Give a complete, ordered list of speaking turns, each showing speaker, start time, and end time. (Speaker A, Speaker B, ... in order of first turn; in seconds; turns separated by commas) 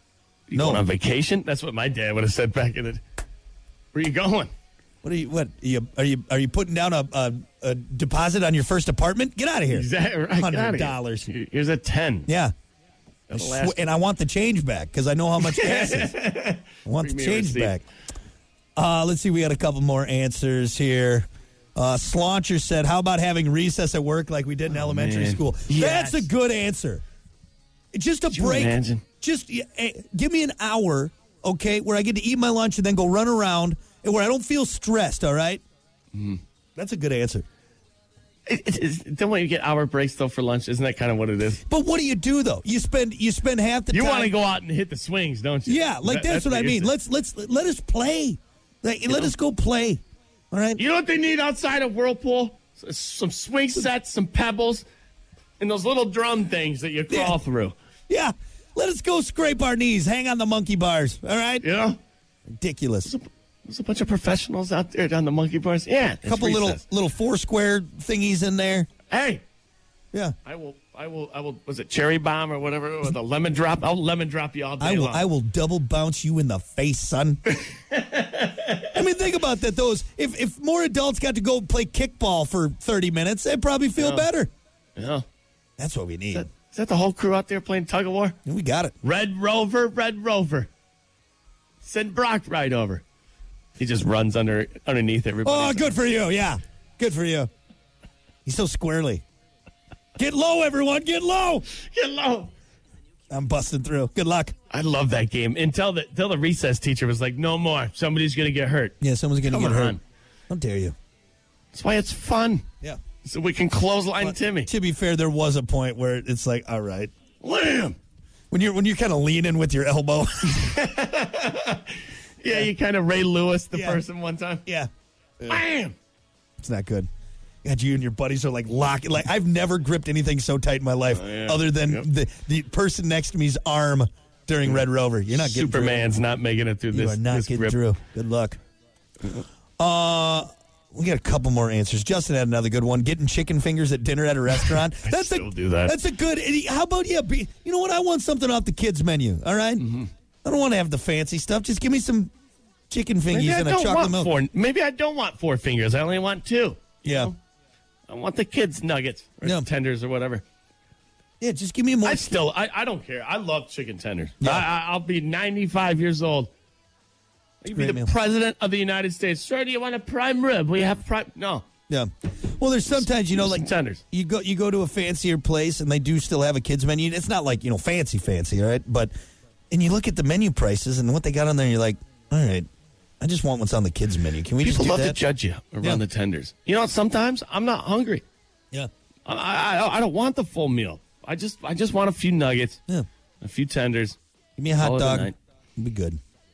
Speaker A: 0.5-3.0, Speaker B: 0.5-0.9, Speaker A: 3.9-4.5, Speaker B: 5.0-11.3, Speaker A: 9.7-12.3, Speaker B: 12.3-12.5, Speaker A: 13.3-13.8, Speaker B: 13.3-16.2, Speaker A: 15.4-17.8, Speaker B: 16.8-17.8, Speaker B: 18.8-27.0, Speaker A: 24.7-26.3, Speaker B: 27.9-35.6, Speaker A: 28.3-29.0, Speaker A: 36.1-36.4, Speaker B: 36.8-37.5, Speaker A: 38.5-41.6, Speaker B: 41.7-44.3, Speaker A: 43.9-46.9, Speaker B: 45.6-50.8, Speaker A: 49.1-49.3, Speaker A: 50.8-54.9, Speaker A: 55.6-57.8, Speaker B: 57.1-57.4, Speaker B: 58.1-61.6, Speaker A: 61.6-62.0, Speaker B: 62.5-63.1, Speaker A: 63.0-66.8, Speaker B: 66.2-68.9, Speaker A: 69.1-69.4, Speaker A: 70.4-75.2, Speaker B: 74.8-77.4, Speaker A: 77.6-78.9, Speaker B: 78.9-84.5, Speaker A: 84.0-84.3, Speaker A: 85.0-85.2, Speaker B: 85.8-86.5, Speaker A: 86.3-88.3, Speaker B: 88.5-88.9, Speaker A: 89.0-90.7, Speaker A: 91.8-93.0, Speaker A: 93.8-96.1, Speaker B: 95.4-97.5, Speaker B: 98.5-99.2, Speaker B: 100.2-101.6, Speaker A: 101.7-102.5, Speaker B: 103.3-104.5, Speaker A: 104.7-110.0, Speaker B: 109.0-110.0, Speaker B: 110.5-110.9, Speaker A: 111.7-112.6, Speaker A: 113.2-114.7, Speaker B: 114.2-117.1, Speaker A: 117.4-118.0, Speaker B: 118.5-120.7, Speaker A: 120.5-124.6, Speaker B: 123.7-124.0, Speaker A: 125.5-126.0, Speaker B: 126.6-127.1, Speaker B: 127.6-136.1, Speaker A: 131.1-132.1, Speaker A: 134.7-137.8, Speaker B: 136.9-138.6, Speaker B: 139.8-149.9, Speaker A: 144.6-145.9, Speaker A: 149.8-150.1, Speaker B: 150.4-152.3, Speaker B: 152.9-154.3, Speaker A: 153.3-157.4, Speaker B: 157.0-157.3, Speaker A: 158.1-160.4, Speaker B: 161.4-162.4, Speaker A: 162.0-166.5, Speaker B: 164.4-164.7, Speaker A: 167.6-171.7, Speaker B: 167.7-168.1, Speaker B: 171.9-179.1, Speaker A: 172.9-174.0, Speaker B: 179.7-182.7, Speaker B: 183.2-185.2, Speaker A: 184.6-188.2, Speaker A: 189.2-192.8, Speaker A: 193.4-194.2, Speaker B: 194.6-196.2, Speaker A: 194.8-195.3